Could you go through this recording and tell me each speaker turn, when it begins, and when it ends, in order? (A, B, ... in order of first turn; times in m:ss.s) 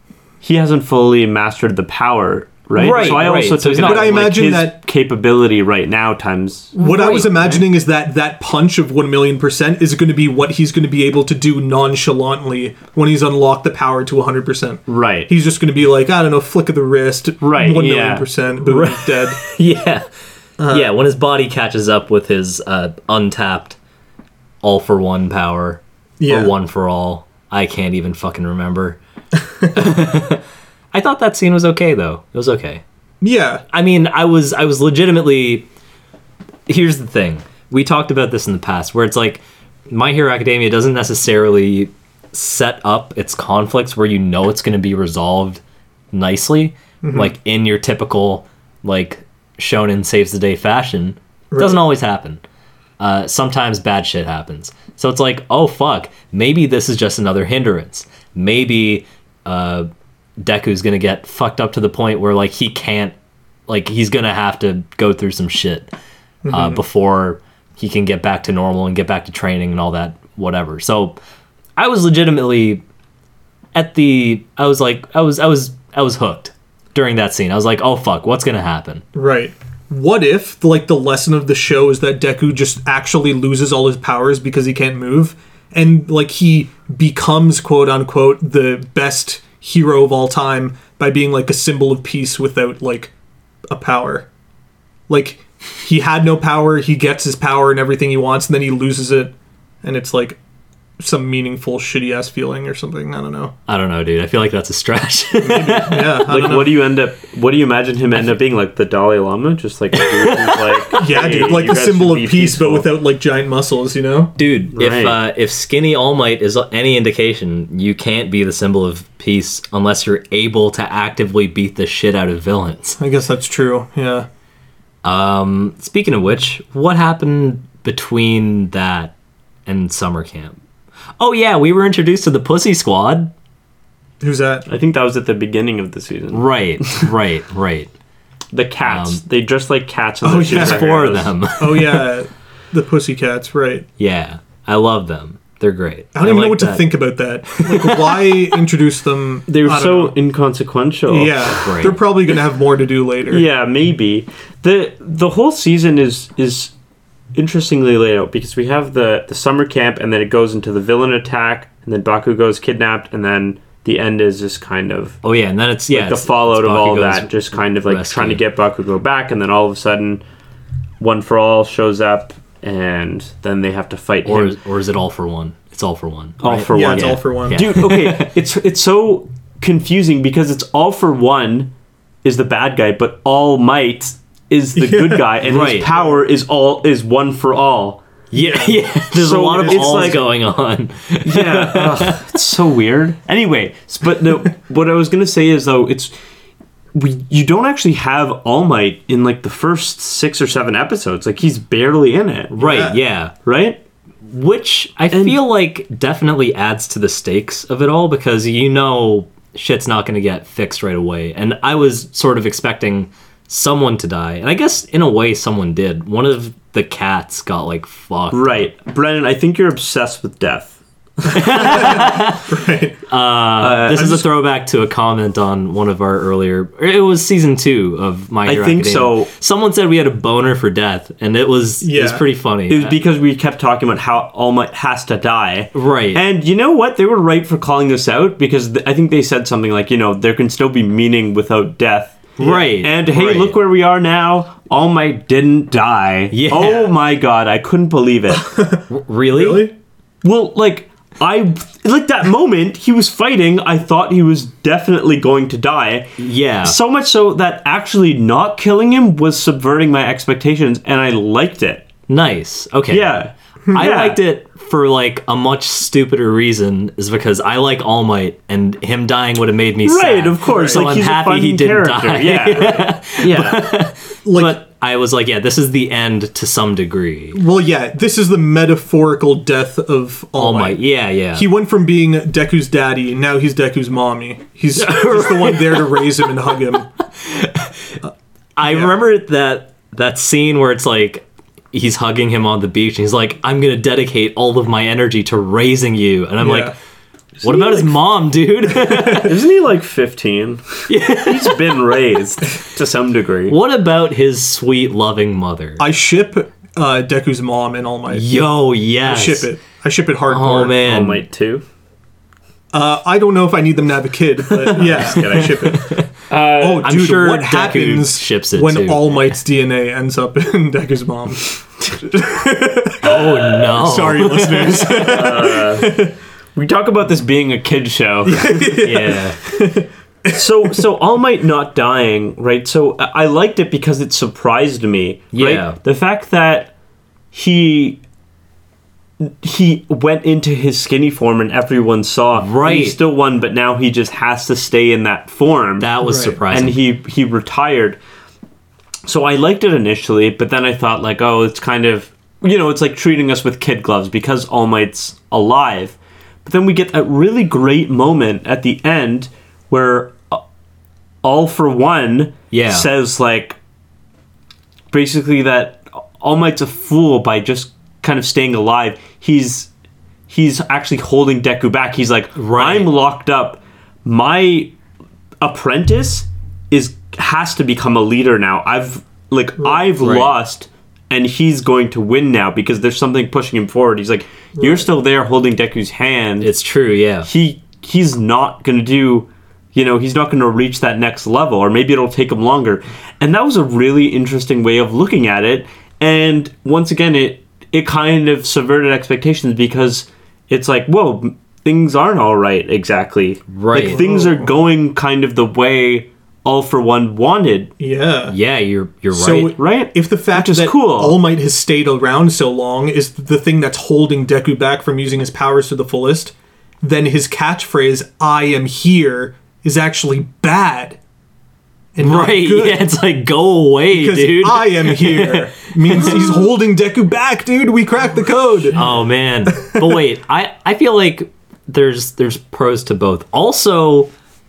0:00.4-0:07.6 A
0:02.8-0:04.2 B
0:02.8-0:04.8 C
0:06.8-0:19.4 C
0:06.8-0:07.5 B
0:14.9-0:15.3 A
0:17.4-0:18.3 A
0:18.6-0:20.1 B
0:20.6-0:20.9 C
0:20.7-0:23.8 B
0:24.6-0:29.0 B
0:26.2-0:26.5 C
0:29.7-0:32.8 B
0:33.2-0:33.6 C
0:33.7-0:35.7 B
0:36.7-0:52.4 B
0:47.0-0:47.3 C
0:51.5-0:51.8 C
0:53.0-0:59.9 B
1:00.4-1:03.2 B
1:03.7-1:05.9 B
1:06.4-1:06.8 C
1:06.5-1:11.2 B
1:11.8-1:12.8 B
1:13.7-1:19.0 B
1:19.2-1:33.1 C
1:33.7-1:34.3 C
1:35.1-1:40.4 C
1:41.0-1:43.6 C
1:43.7-1:46.3 B
1:45.4-1:46.8 C
1:46.3-1:52.9 A
1:50.1-1:51.0 B
1:50.9-1:54.3 C
1:54.4-2:03.0 B
1:54.7-1:55.2 A
2:03.0-2:04.3 C
2:05.0-2:09.1 B
2:09.7-2:10.6 B
2:11.2-2:13.3 B
2:14.2-2:14.7 C
2:14.7-2:17.1 A
2:16.3-2:17.9 B
2:18.5-2:21.3 A
2:18.8-2:19.2 B
2:20.2-2:21.0 C
2:20.5-2:22.1 B
2:21.6-2:23.9 C
2:24.0-2:26.9 B
2:26.1-2:30.2 C
2:27.6-2:28.4 B
2:29.5-2:31.6 A
2:31.1-2:33.4 C
2:31.6-2:32.0 B
2:33.3-2:36.7 A
2:37.3-2:45.2 A
2:45.2-2:48.4 B
2:45.9-2:50.2 A
2:51.0-2:54.6 A
2:54.2-2:58.3 B
2:56.4-3:01.7 A
2:56.7-2:57.6 C
3:02.2-3:08.1 A
3:04.8-3:05.3 C
3:05.5-3:05.9 B
3:08.3-3:12.2 B
3:08.4-3:08.8 C
3:09.1-3:10.2 A
3:09.5-3:10.2 C
3:11.2-3:16.1 A
3:16.9-3:22.6 A
3:22.5-3:23.3 B
3:22.6-3:23.0 C
3:23.4-3:23.8 A
3:24.2-3:38.7 B
3:25.1-3:25.4 A
3:38.3-3:40.8 A
3:41.3-3:42.5 B
3:41.3-3:41.6 A
3:41.4-3:43.0 C
3:43.1-3:53.0 B
3:43.6-3:44.2 A
3:44.0-3:44.2 C
3:48.4-3:49.3 A
3:51.8-3:52.2 C
3:52.7-4:08.4 A
3:55.7-3:56.2 B
4:02.4-4:03.6 B
4:06.3-4:06.9 B
4:08.3-4:09.7 C
4:08.9-4:09.7 B
4:10.2-4:21.9 A
4:16.2-4:16.8 B
4:22.1-4:23.2 B
4:22.9-4:24.2 A
4:23.7-4:37.4 B
4:29.8-4:33.7 A
4:30.5-4:30.8 C
4:34.2-4:34.6 C
4:37.3-4:46.9 C
4:40.4-4:41.5 B
4:44.8-4:46.6 B
4:47.2-4:48.0 B
4:48.6-4:56.7 B
4:48.6-4:48.9 C
4:56.4-4:56.8 C
4:57.4-4:57.9 A
4:57.4-4:59.3 B
4:58.8-4:59.2 C
4:59.2-5:03.6 A
5:00.9-5:01.8 B
5:03.5-5:05.8 B
5:05.8-5:08.3 C
5:08.1-5:09.5 B
5:09.0-5:10.8 C
5:10.3-5:11.2 B
5:10.8-5:11.6 A
5:12.7-5:26.1 C
5:14.5-5:15.7 A
5:15.1-5:16.1 B
5:16.3-5:16.9 A
5:16.8-5:19.4 B
5:23.0-5:25.2 B
5:25.0-5:25.9 A
5:26.6-5:28.8 A
5:28.3-5:30.4 C
5:28.8-5:29.4 B
5:30.3-5:36.7 A
5:35.3-5:35.8 B
5:37.3-5:38.0 A
5:39.2-5:45.9 A
5:42.4-5:43.0 B
5:45.8-5:46.8 B
5:46.0-5:46.4 C
5:46.5-5:48.0 A
5:49.0-6:00.4 A
6:01.2-6:03.6 A
6:02.5-6:02.9 B
6:04.9-6:09.7 A
6:10.3-6:14.7 A
6:12.4-6:12.9 B
6:15.4-6:26.5 A
6:20.0-6:20.3 B
6:24.6-6:24.9 C
6:26.4-6:27.3 B
6:27.2-6:47.7 A
6:43.5-6:44.0 B
6:43.7-6:44.5 C
6:47.8-6:48.4 C
6:48.3-6:49.6 B
6:49.1-7:01.0 C
6:49.6-6:51.2 A
7:02.0-7:02.9 C
7:02.0-7:06.4 B
7:03.9-7:08.8 C
7:08.7-7:14.1 B
7:09.5-7:09.9 C